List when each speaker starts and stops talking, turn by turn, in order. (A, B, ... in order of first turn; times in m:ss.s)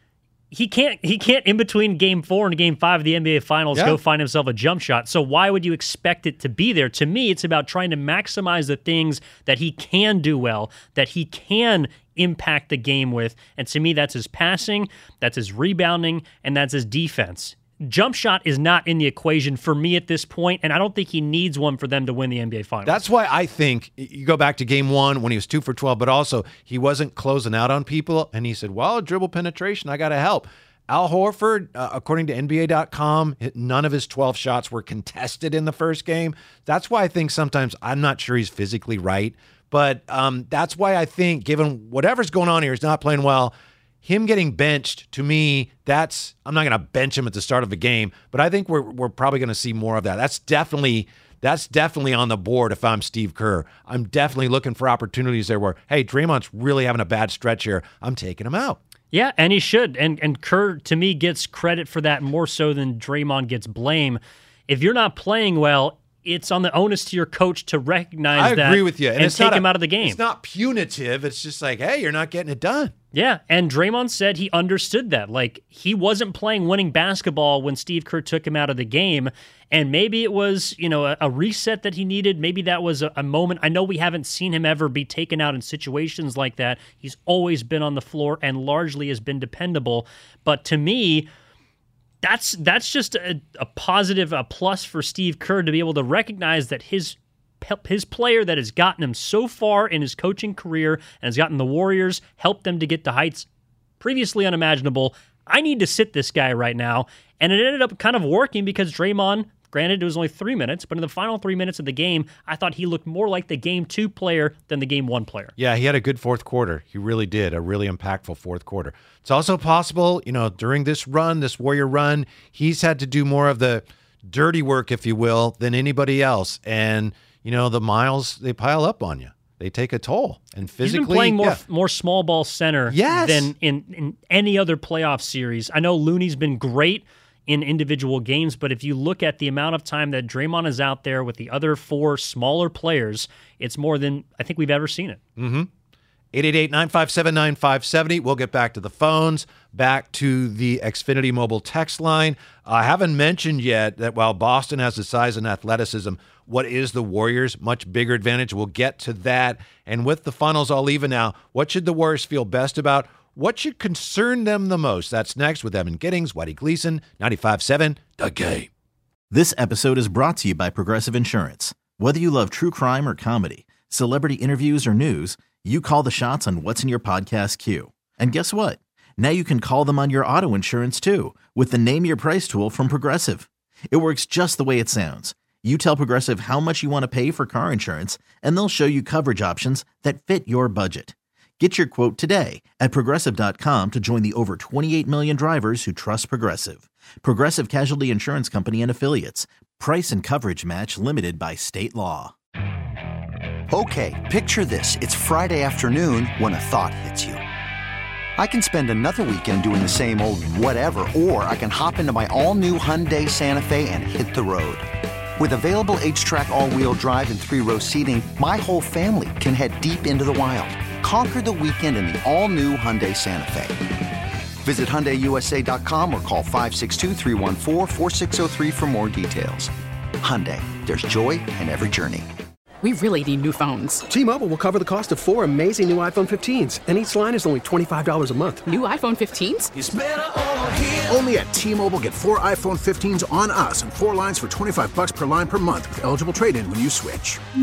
0:00.5-0:23.0 A
0:22.9-0:58.8 B
0:59.1-1:10.2 A
1:08.3-1:12.9 B
1:13.1-1:31.3 A
1:32.2-1:43.5 A
1:44.0-1:55.6 A
1:55.6-2:11.6 B
2:10.8-2:25.2 A
2:12.9-2:13.5 B
2:25.4-2:25.7 B
2:26.3-2:48.7 B
2:49.3-3:22.3 C
3:23.7-3:27.4 D
3:28.4-3:34.9 D
3:35.4-3:43.8 D
3:44.6-3:52.3 D
3:52.8-3:54.1 E
3:54.1-3:58.7 F
3:58.6-3:59.7 E
3:59.8-4:07.4 G